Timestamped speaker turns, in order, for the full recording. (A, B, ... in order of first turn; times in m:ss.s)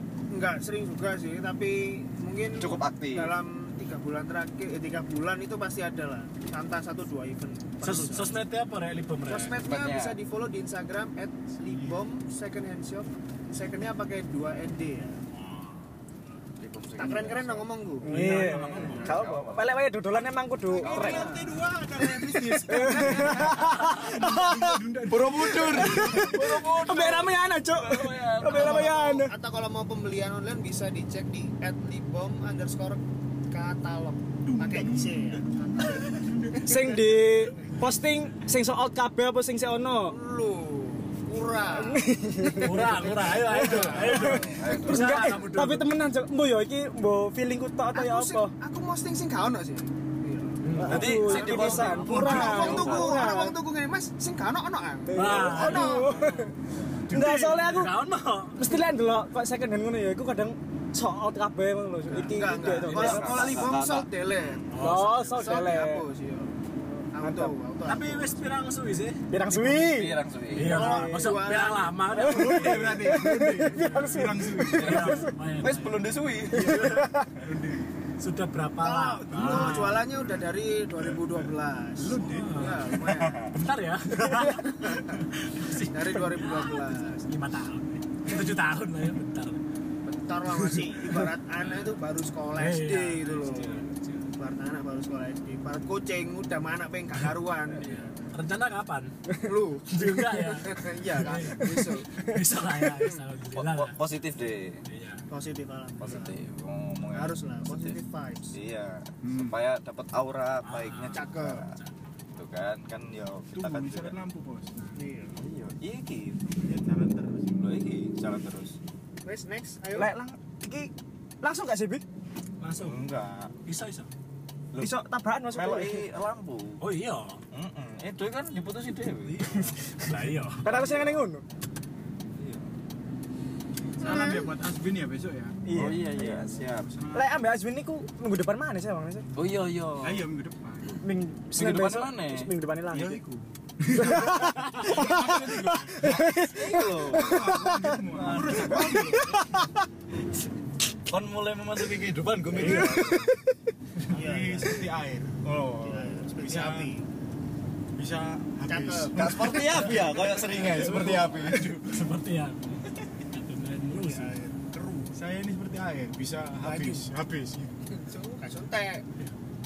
0:00.3-0:08.4 A
0:02.6-0:03.3 B
0:07.8-0:09.6 C
0:09.3-0:15.2 A
0:09.6-0:10.2 B
0:11.6-0:12.0 D
0:16.6-0:17.7 B
0:17.0-0:18.3 A
0:18.0-0:21.3 E
0:18.1-0:19.0 C
0:18.1-0:19.1 D
0:18.6-0:19.7 B
0:20.8-0:26.8 D
0:20.8-0:21.4 B
0:22.1-0:29.3 E
0:22.7-0:23.7 A
0:25.4-0:29.2 B
0:26.6-0:27.2 C
0:28.5-0:37.4 A
0:34.4-0:37.0 D
0:36.6-0:40.1 E
0:40.0-0:44.3 A
0:41.7-0:48.5 E
0:42.5-0:45.9 C
0:44.0-0:45.4 B
0:47.9-0:56.3 A
0:50.6-0:52.5 C
0:50.8-0:53.5 E
0:50.8-0:53.2 B
0:51.5-0:52.9 D
0:55.1-0:56.5 E
0:55.1-0:56.5 C
0:57.1-0:58.8 C
0:57.1-0:57.9 E
0:58.6-1:03.7 E
1:02.1-1:04.8 A
1:02.8-1:04.1 B
1:04.7-1:05.6 C
1:04.8-1:06.0 E
1:05.3-1:06.6 A
1:06.8-1:07.5 E
1:07.1-1:08.4 A
1:07.8-1:09.2 C
1:09.3-1:11.4 E
1:09.5-1:10.9 B
1:10.5-1:13.1 C
1:10.6-1:12.0 A
1:12.1-1:15.3 E
1:12.2-1:14.9 D
1:13.7-1:17.1 C
1:14.7-1:16.9 B
1:16.5-1:17.3 E
1:17.4-1:17.9 D
1:18.2-1:20.0 C
1:18.8-1:23.4 A
1:19.3-1:20.0 D
1:22.0-1:22.8 D
1:22.2-1:22.9 C
1:23.1-1:23.6 B
1:23.5-1:29.6 C
1:24.6-1:25.2 A
1:25.8-1:27.3 A
1:30.0-1:33.8 A
1:32.6-1:34.3 C
1:34.4-1:38.3 A
1:37.7-1:39.1 C
1:39.4-1:42.1 A
1:39.9-1:44.0 C
1:43.5-1:44.8 B
1:44.9-1:45.2 C
1:45.3-1:46.4 A
1:46.0-1:48.0 B
1:47.1-1:48.5 A
1:48.5-1:51.8 B
1:49.2-1:49.6 D
1:50.6-1:51.9 C
1:51.1-1:51.7 A
1:52.3-1:54.2 B
1:53.5-1:55.0 D
1:55.0-1:55.4 A
1:55.4-1:56.4 B
1:56.4-1:57.7 D
1:57.6-1:58.8 B
1:59.2-2:00.1 A
1:59.9-2:02.0 E
2:02.6-2:03.0 C
2:02.8-2:03.5 B
2:03.6-2:04.1 C
2:04.7-2:06.8 B
2:04.8-2:06.0 E
2:06.8-2:07.4 C
2:07.5-2:09.4 B
2:09.1-2:10.6 C
2:10.6-2:11.4 E
2:10.6-2:11.3 B
2:12.3-2:12.7 B
2:14.0-2:15.9 D
2:14.0-2:14.5 A
2:15.6-2:16.6 E
2:15.7-2:16.9 B
2:16.6-2:17.3 D
2:17.1-2:19.3 E
2:19.3-2:20.3 B
2:20.0-2:21.0 D
2:21.0-2:23.2 E
2:21.5-2:22.5 B
2:22.9-2:26.2 D
2:23.9-2:28.0 E
2:26.0-2:29.4 B
2:27.1-2:29.4 D
2:28.7-2:29.6 E
2:31.1-2:33.3 B
2:32.6-2:33.1 C
2:32.6-2:33.4 E
2:34.0-2:35.3 D
2:34.1-2:34.7 A
2:35.4-2:36.2 B
2:35.8-2:37.0 A
2:36.3-2:36.9 D
2:37.9-2:41.6 D
2:38.7-2:40.3 A
2:39.1-2:41.7 B
2:40.9-2:44.4 C
2:43.9-2:45.0 A
2:44.8-2:47.7 D
2:46.6-2:47.1 A
2:47.9-2:49.0 A